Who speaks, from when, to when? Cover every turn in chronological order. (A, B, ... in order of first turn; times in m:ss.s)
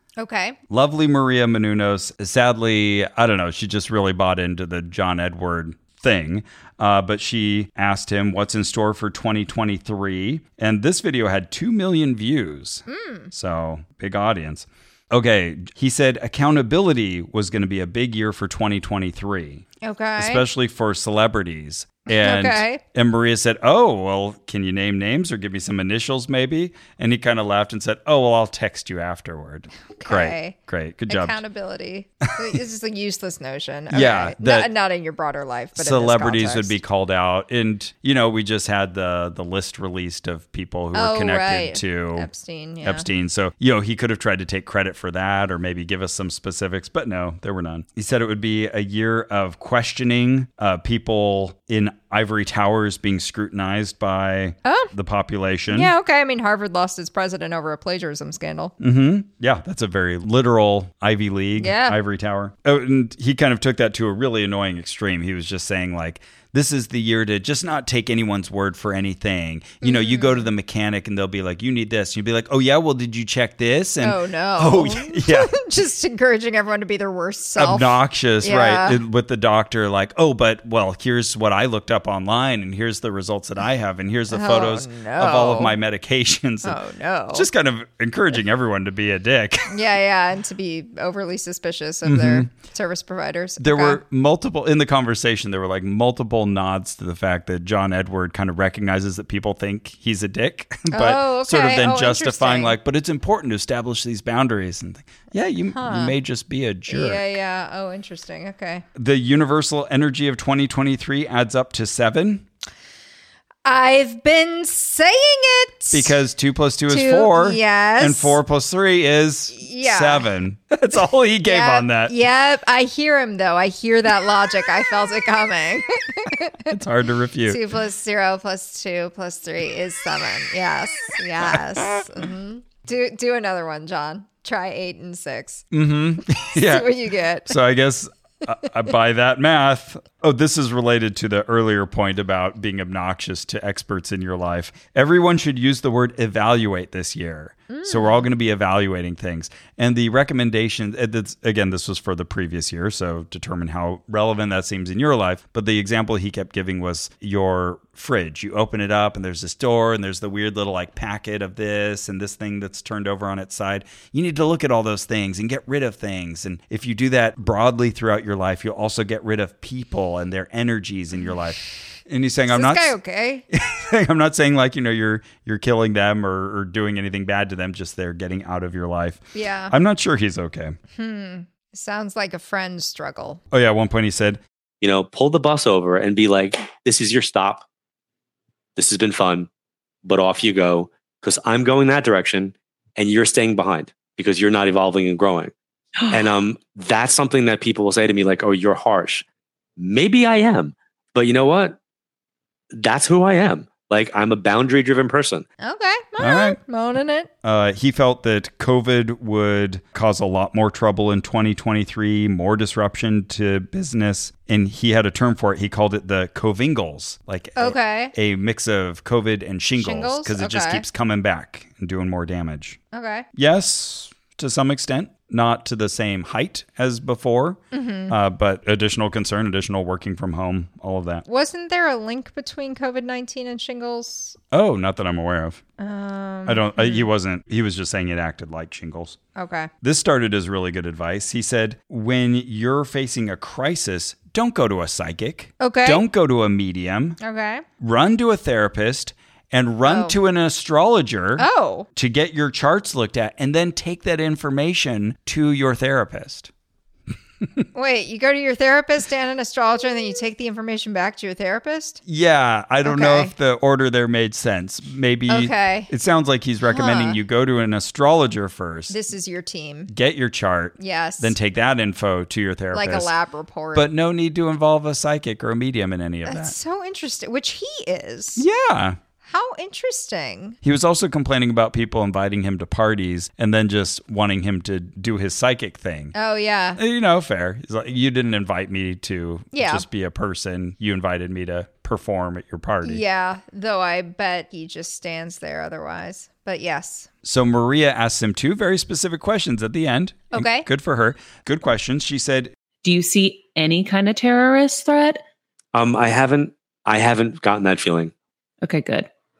0:00.2-0:00.6 A
0:00.7-0:31.4 B
0:12.9-0:13.3 A
0:19.8-0:20.4 A
0:22.1-0:22.8 A
0:30.0-0:30.6 A
0:31.1-0:36.8 A
0:33.9-0:34.7 B
0:35.8-0:42.3 B
0:40.9-0:43.1 A
0:42.8-0:55.9 B
0:54.6-0:54.9 A
0:55.7-0:58.7 A
0:58.8-1:15.5 B
1:01.6-1:02.0 A
1:09.8-1:10.5 A
1:14.0-1:19.0 A
1:17.6-1:26.8 B
1:24.3-1:25.8 A
1:26.6-1:27.5 A
1:27.3-1:29.8 B
1:29.7-1:34.0 A
1:32.0-1:32.5 B
1:33.6-1:47.4 B
1:40.9-1:42.8 A
1:45.7-1:46.2 A
1:46.9-1:48.8 A
1:49.0-1:52.4 B
1:53.6-1:56.2 A
1:55.9-2:02.1 B
1:56.9-1:58.4 A
1:59.5-2:00.3 A
2:01.5-2:06.7 A
2:06.7-2:07.6 B
2:07.5-2:15.6 A
2:11.4-2:12.0 B
2:15.7-2:16.9 B
2:16.4-2:17.6 A
2:17.5-2:53.0 B
2:27.7-2:28.3 A
2:52.5-2:53.4 A
2:53.5-3:00.8 B
2:59.3-2:59.8 A
3:01.0-3:03.4 A
3:03.5-3:04.4 B
3:04.8-3:07.6 C
3:08.8-3:09.5 C
3:10.0-3:15.5 C
3:16.1-3:19.2 C
3:19.8-3:21.8 C
3:22.7-3:25.4 C
3:25.6-3:27.3 A
3:26.2-3:26.6 B
3:27.4-3:42.8 B
3:37.6-3:38.1 A
3:39.8-3:40.9 A
3:42.9-3:43.3 A
3:43.4-3:51.2 B
3:47.7-3:48.2 A
3:51.3-3:54.4 A
3:54.5-3:55.6 B
3:55.8-3:57.1 A
3:56.5-3:59.2 B
3:59.4-3:59.7 A
3:59.8-4:07.2 B
4:05.6-4:06.0 A
4:07.2-4:07.6 A
4:07.8-4:16.5 B
4:09.8-4:10.2 A
4:11.4-4:11.9 A
4:17.7-4:22.0 A
4:22.1-4:29.0 B
4:22.8-4:23.3 A
4:25.3-4:25.9 A
4:26.7-4:27.2 A
4:28.9-4:29.9 A
4:29.9-4:33.1 B
4:30.8-4:31.4 A
4:32.7-4:33.9 A
4:33.8-4:36.6 B
4:36.3-4:38.4 A
4:38.4-4:39.0 B
4:39.2-4:40.6 A
4:40.6-4:46.1 B
4:46.1-4:46.8 A
4:46.8-4:53.0 B
4:49.5-4:49.9 A
4:52.8-4:57.1 A
4:57.2-5:02.5 B
5:00.3-5:00.7 A
5:02.8-5:05.2 D
5:05.7-5:08.1 C
5:08.6-5:09.1 D